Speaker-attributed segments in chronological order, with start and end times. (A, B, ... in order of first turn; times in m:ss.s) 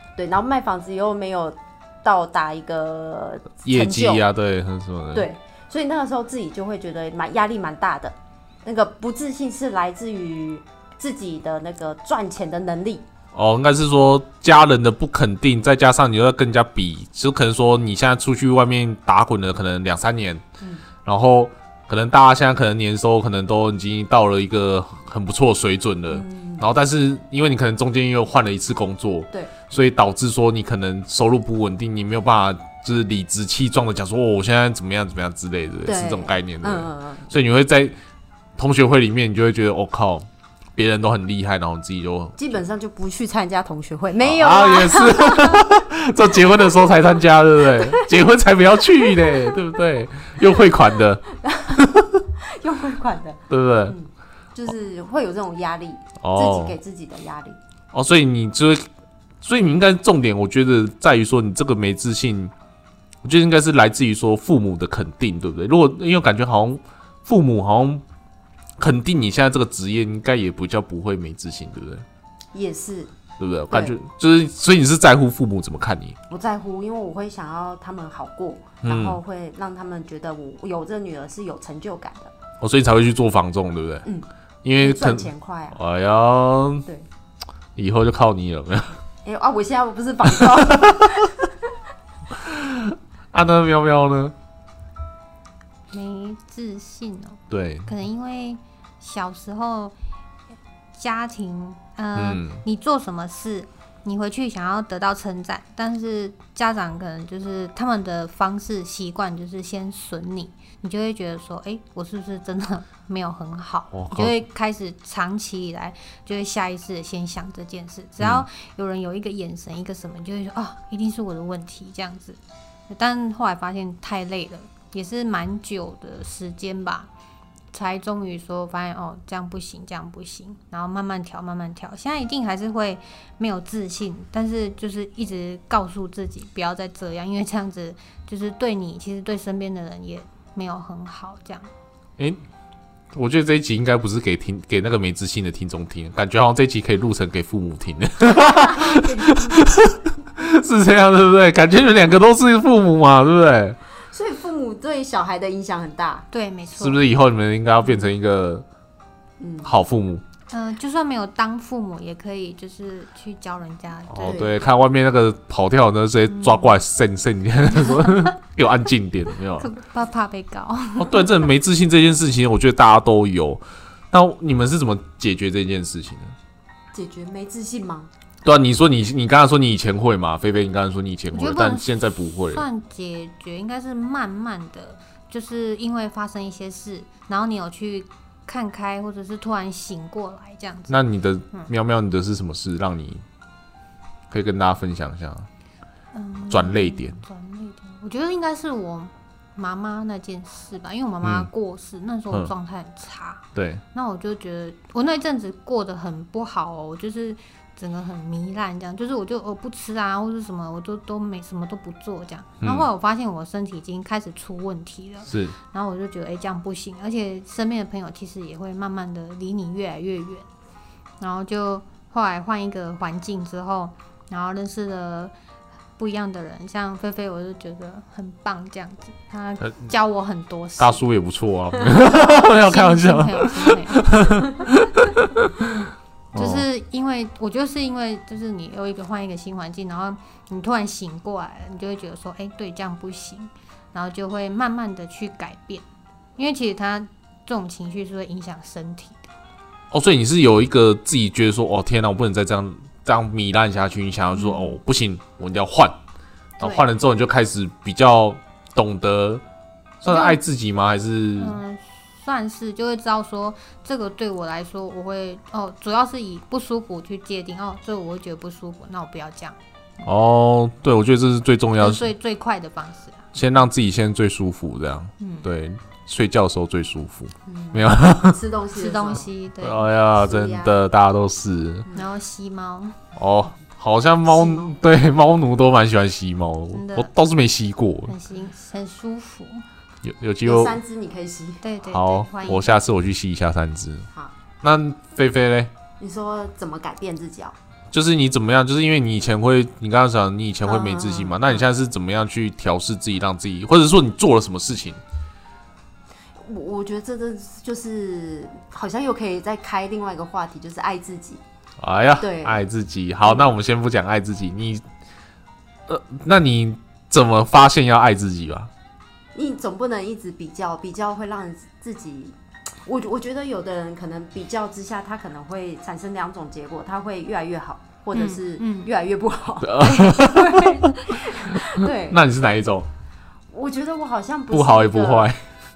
0:00.2-0:04.2 A
0:03.6-0:05.3 B
0:05.1-0:13.0 A
0:13.3-0:20.4 B
0:21.0-0:38.0 B
0:26.1-0:26.6 A
0:35.8-0:37.3 A
0:38.6-0:42.6 B
0:42.4-0:45.8 A
0:44.2-0:52.2 B
0:49.0-0:49.5 A
0:51.4-0:51.8 A
0:52.5-0:57.6 A
0:53.5-0:54.0 B
0:56.2-0:56.8 B
0:57.9-0:58.8 B
0:59.4-1:02.5 B
1:03.2-1:08.0 B
1:08.8-1:12.0 B
1:12.5-1:13.1 A
1:13.4-1:16.2 B
1:13.7-1:14.0 A
1:16.3-1:22.3 A
1:18.8-1:19.2 B
1:22.6-1:24.0 B
1:24.0-1:25.8 A
1:24.6-1:26.8 B
1:27.8-1:29.0 B
1:29.2-1:31.4 A
1:32.4-1:34.3 B
1:35.9-1:39.9 C
1:37.5-1:37.9 B
1:40.9-2:02.4 C
1:42.1-1:42.6 B
1:53.9-1:54.4 B
1:58.2-1:58.4 B
2:02.9-2:07.1 C
2:07.7-2:21.7 C
2:23.1-2:33.8 B
2:28.3-2:29.7 A
2:34.0-2:36.2 A
2:36.3-2:37.0 C
2:36.7-2:38.6 B
2:39.4-2:39.7 A
2:39.6-2:40.2 B
2:40.5-2:44.4 C
2:44.1-2:49.7 B
2:44.2-2:44.6 A
2:46.3-2:46.8 C
2:47.7-2:48.3 C
2:49.6-2:51.4 C
2:51.0-2:56.3 B
2:56.9-2:58.1 A
2:58.4-3:02.6 B
3:01.3-3:11.0 C
3:10.9-3:13.2 B
3:14.3-3:15.5 B
3:16.1-3:40.5 C
3:16.5-3:17.2 B
3:21.2-3:21.5 B
3:23.5-3:23.8 B
3:32.6-3:32.9 B
3:35.3-3:35.5 B
3:41.2-3:45.3 C
3:46.0-3:51.0 C
3:49.6-3:49.9 B
3:50.8-3:55.6 B
3:52.0-3:54.2 C
3:56.3-4:05.8 C
3:56.3-3:56.6 B
4:06.4-4:09.2 C
4:09.9-4:15.9 B
4:14.3-4:14.8 C
4:16.6-4:16.9 C
4:16.6-4:19.4 B
4:20.0-4:21.6 B
4:20.0-4:20.4 C
4:21.4-4:29.6 C
4:30.0-4:32.1 B
4:31.8-4:33.2 C
4:33.3-4:38.4 B
4:35.2-4:35.5 C
4:37.4-4:39.3 A
4:38.7-4:39.9 C
4:39.6-4:41.9 B
4:40.2-4:40.8 A
4:41.9-4:43.0 C
4:43.2-4:48.1 B
4:44.2-4:44.8 A
4:46.7-4:47.1 C
4:48.1-4:49.6 C
4:50.0-4:50.8 B
4:50.4-4:51.6 A
4:51.6-4:52.7 C
4:51.9-4:54.1 B
4:54.6-4:55.7 B
4:56.0-4:57.5 A
4:57.9-5:05.0 B
5:00.6-5:01.5 A
5:06.4-5:11.4 A
5:11.8-5:14.8 B
5:12.2-5:12.6 A
5:13.2-5:13.5 A
5:15.9-5:18.7 B
5:19.3-5:32.2 A
5:28.1-5:28.9 C
5:29.6-5:30.9 B
5:31.8-5:32.9 B
5:33.5-5:35.3 A
5:34.5-5:35.4 B